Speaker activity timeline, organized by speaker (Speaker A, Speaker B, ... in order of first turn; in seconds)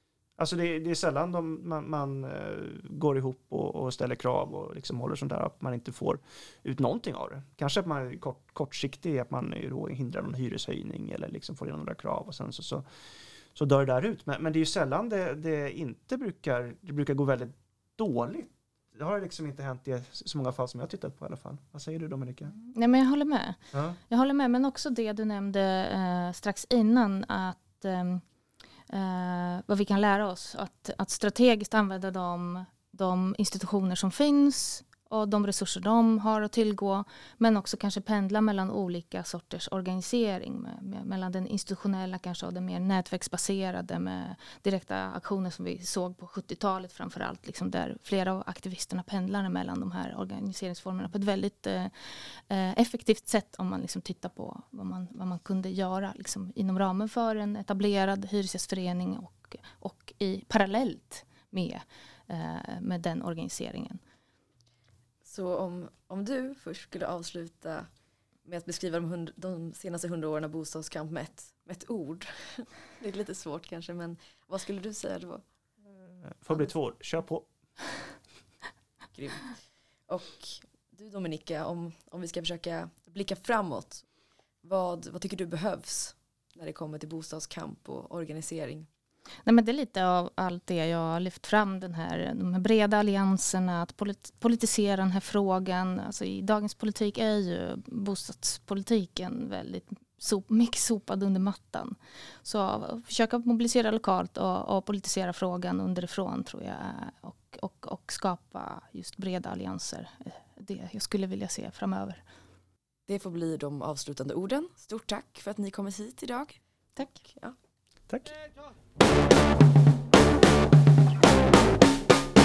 Speaker A: 0.4-12.9, 13.6-22.6, 23.7-24.0, 76.3-77.5
Speaker B: 22.5-23.6, 24.1-28.2, 28.9-64.0, 89.5-112.2
Speaker C: 65.2-67.9, 68.5-75.4, 79.1-84.0, 84.6-88.9, 113.1-117.5